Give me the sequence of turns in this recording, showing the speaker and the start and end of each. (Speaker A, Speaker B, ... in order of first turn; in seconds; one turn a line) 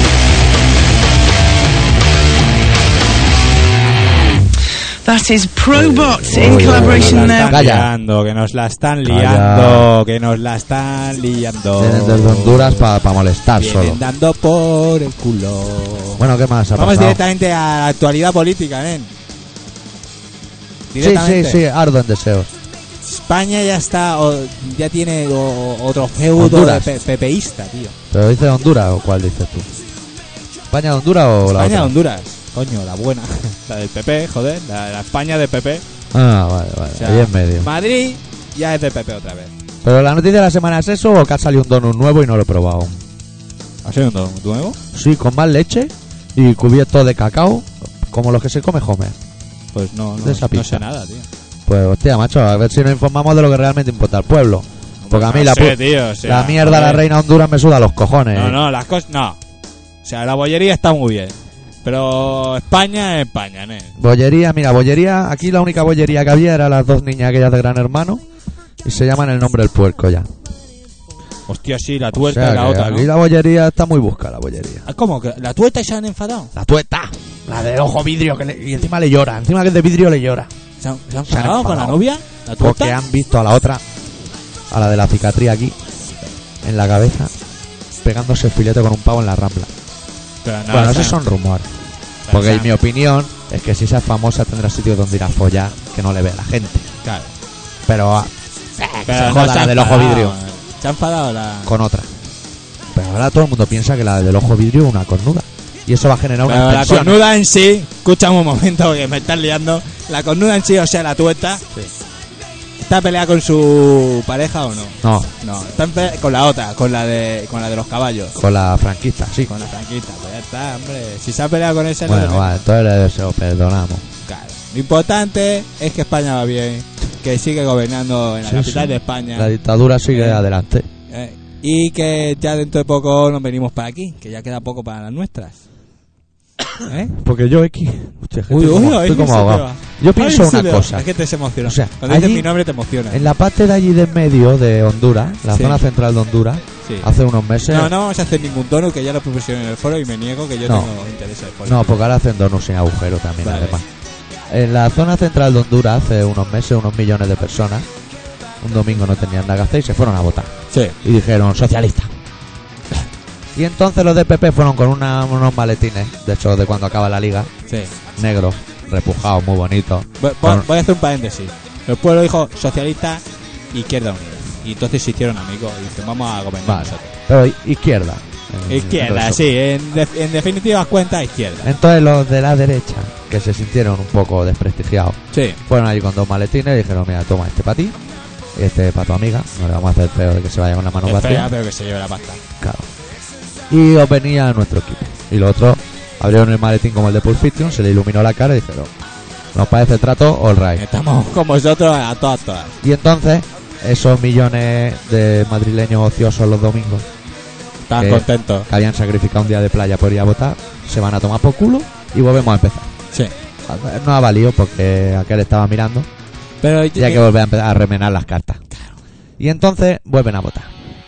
Speaker A: 5.0-7.6
Speaker B: 5.7-7.9
Speaker C: 6.4-12.9
Speaker B: 9.0-9.9
Speaker B: 11.8-14.0
Speaker C: 13.6-16.2
Speaker B: 16.2-17.2
Speaker C: 16.8-19.1
Speaker C: 20.9-21.6
Speaker B: 21.0-22.5
Speaker C: 23.0-27.9
Speaker B: 26.4-27.0
Speaker B: 28.1-29.8
Speaker B: 30.7-31.9
Speaker C: 31.5-35.8
Speaker B: 36.1-37.7
Speaker C: 36.9-39.5
Speaker B: 39.8-43.0
Speaker C: 43.9-44.8
Speaker B: 44.9-49.2
Speaker C: 49.7-51.3
Speaker B: 50.2-50.8
Speaker B: 51.7-58.6
Speaker C: 55.0-57.0
Speaker C: 58.3-59.4
Speaker C: 60.0-64.0
Speaker B: 64.0-68.2
Speaker B: 68.8-70.3
Speaker C: 71.5-73.1
Speaker B: 72.1-74.8
Speaker C: 74.9-76.5
Speaker B: 76.6-80.5
Speaker C: 80.8-83.0
Speaker B: 81.3-82.0
Speaker B: 82.6-83.8
Speaker B: 84.7-85.8
Speaker B: 86.6-87.3
Speaker B: 88.0-89.7
Speaker C: 90.4-91.2
Speaker B: 90.7-91.7
Speaker C: 92.2-92.7
Speaker B: 92.3-96.9
Speaker C: 97.0-97.3
Speaker B: 97.9-100.4
Speaker C: 99.1-101.8
Speaker B: 101.7-102.1
Speaker B: 102.9-107.2
Speaker C: 106.5-111.9
Speaker C: 112.8-118.3
Speaker B: 115.0-115.3
Speaker B: 118.3-119.5
Speaker C: 119.5-122.6
Speaker B: 122.0-124.1
Speaker C: 124.3-129.5
Speaker B: 128.4-130.9
Speaker C: 130.1-130.4
Speaker C: 131.1-135.6
Speaker C: 136.8-137.2
Speaker B: 137.1-141.1
Speaker C: 138.5-143.3
Speaker B: 141.6-142.5
Speaker B: 143.1-147.9
Speaker C: 145.5-145.8
Speaker C: 146.8-147.1
Speaker C: 147.7-152.0
Speaker B: 150.7-150.9
Speaker B: 151.7-153.9
Speaker C: 153.4-153.8
Speaker B: 154.5-157.9
Speaker B: 158.6-160.5
Speaker C: 160.7-161.0
Speaker B: 161.0-162.1
Speaker B: 163.6-167.5
Speaker C: 167.7-167.9
Speaker B: 168.2-170.7
Speaker C: 170.2-177.1
Speaker B: 176.6-179.5
Speaker C: 178.7-181.7
Speaker B: 181.6-188.0
Speaker C: 185.3-185.6
Speaker B: 188.6-191.5
Speaker C: 191.0-192.4
Speaker B: 192.6-192.9
Speaker B: 193.7-198.9
Speaker B: 199.5-200.8
Speaker C: 200.8-202.8
Speaker B: 202.8-207.1
Speaker C: 207.9-208.7
Speaker B: 208.0-212.9
Speaker B: 213.7-216.1
Speaker C: 216.6-217.2
Speaker B: 216.9-218.6
Speaker B: 219.4-220.7